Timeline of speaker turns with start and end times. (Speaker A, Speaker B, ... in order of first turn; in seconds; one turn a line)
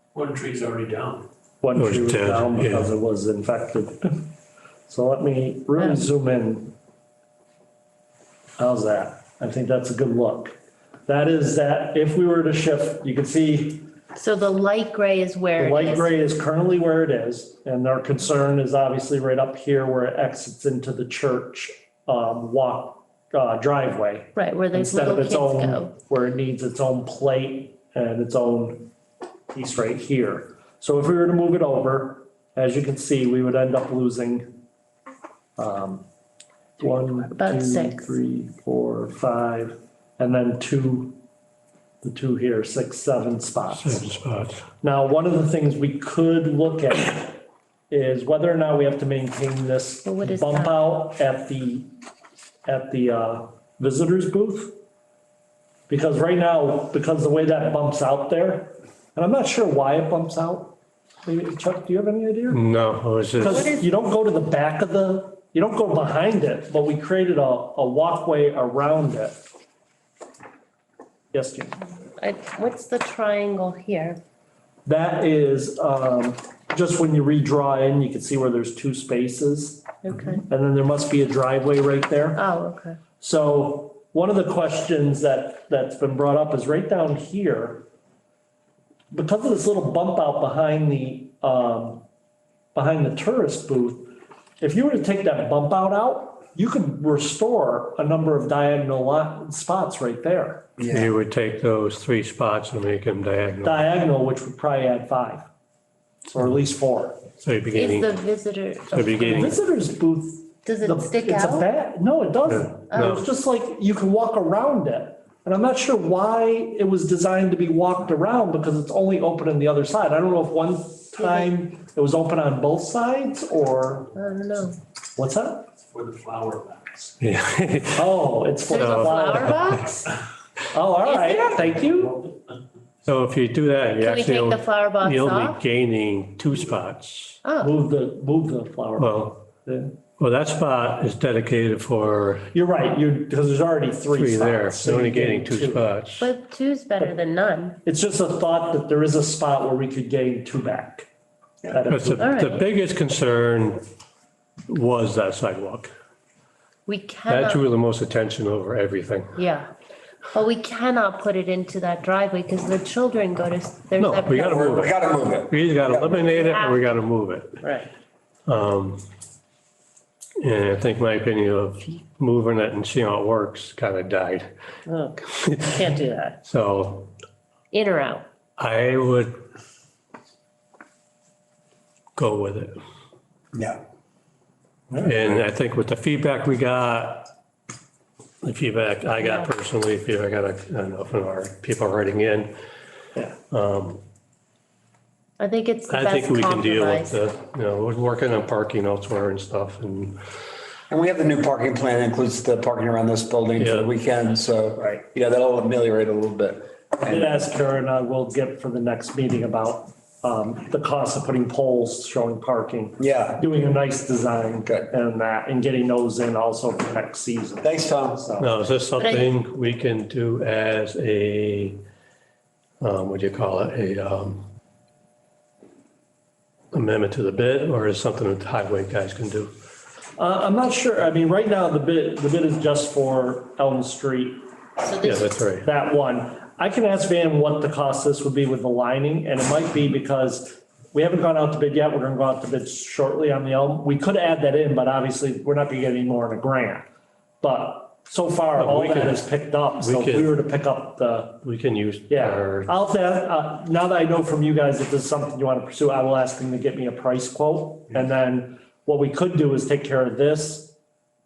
Speaker A: 0.1-1.3
Speaker B: 1.6-4.3
Speaker C: 1.7-2.9
Speaker B: 4.9-6.7
Speaker D: 5.8-6.1
Speaker B: 8.6-13.9
Speaker D: 14.1-16.1
Speaker B: 15.6-28.9
Speaker D: 24.3-25.9
Speaker B: 29.5-34.6
Speaker B: 35.6-36.0
Speaker B: 36.8-41.2
Speaker D: 37.3-38.1
Speaker B: 42.0-44.1
Speaker C: 43.7-44.6
Speaker B: 44.8-51.9
Speaker D: 50.0-50.9
Speaker B: 52.6-54.8
Speaker B: 55.9-62.6
Speaker C: 62.5-63.6
Speaker B: 63.3-69.4
Speaker D: 63.4-63.9
Speaker B: 71.3-71.8
Speaker D: 72.0-74.2
Speaker B: 74.8-82.4
Speaker D: 80.0-80.4
Speaker D: 82.3-83.0
Speaker B: 83.2-87.9
Speaker B: 89.1-92.0
Speaker B: 92.7-100.7
Speaker E: 100.8-101.1
Speaker C: 100.9-103.8
Speaker B: 103.6-105.5
Speaker B: 106.3-107.2
Speaker C: 107.4-108.1
Speaker D: 107.7-109.6
Speaker C: 108.9-109.6
Speaker B: 109.2-124.1
Speaker D: 110.6-111.7
Speaker C: 112.5-113.2
Speaker D: 112.9-113.2
Speaker D: 121.2-121.5
Speaker D: 124.1-124.8
Speaker B: 125.2-125.7
Speaker A: 125.9-127.1
Speaker C: 127.2-128.1
Speaker B: 127.9-129.6
Speaker D: 128.7-130.1
Speaker C: 128.7-129.8
Speaker B: 130.7-132.2
Speaker D: 131.0-131.7
Speaker C: 133.1-137.4
Speaker D: 134.0-135.6
Speaker D: 137.4-137.7
Speaker B: 137.6-139.9
Speaker C: 139.0-139.4
Speaker C: 140.2-142.5
Speaker B: 142.5-145.8
Speaker C: 144.1-146.3
Speaker D: 146.2-147.8
Speaker B: 147.8-151.1
Speaker B: 151.7-152.3
Speaker C: 151.9-153.8
Speaker D: 152.2-152.6
Speaker C: 154.7-155.9
Speaker D: 156.8-157.6
Speaker C: 157.3-159.4
Speaker D: 159.3-159.7
Speaker D: 160.3-164.9
Speaker C: 164.0-167.6
Speaker E: 164.4-166.3
Speaker D: 166.3-166.9
Speaker D: 167.6-167.9
Speaker C: 168.4-169.0
Speaker C: 170.4-174.5
Speaker D: 174.9-176.4
Speaker C: 175.3-175.8
Speaker C: 176.4-177.1
Speaker D: 177.7-178.2
Speaker C: 178.6-179.4
Speaker C: 182.2-182.7
Speaker E: 183.5-183.8
Speaker B: 184.9-185.1
Speaker C: 185.0-187.3
Speaker C: 188.4-192.5
Speaker C: 193.5-194.0
Speaker D: 195.4-197.2
Speaker C: 195.9-200.2
Speaker E: 200.9-207.3
Speaker C: 203.6-203.9
Speaker B: 207.0-218.5
Speaker E: 213.0-213.4
Speaker E: 214.6-214.9
Speaker E: 217.6-218.2
Speaker C: 218.4-221.8
Speaker D: 219.0-219.3
Speaker C: 222.8-224.5
Speaker C: 226.7-229.5
Speaker B: 230.2-234.5
Speaker D: 234.8-235.3
Speaker C: 235.0-235.7
Speaker B: 235.6-246.9
Speaker B: 247.4-251.4
Speaker C: 248.6-250.3
Speaker C: 251.4-252.7
Speaker B: 252.1-260.7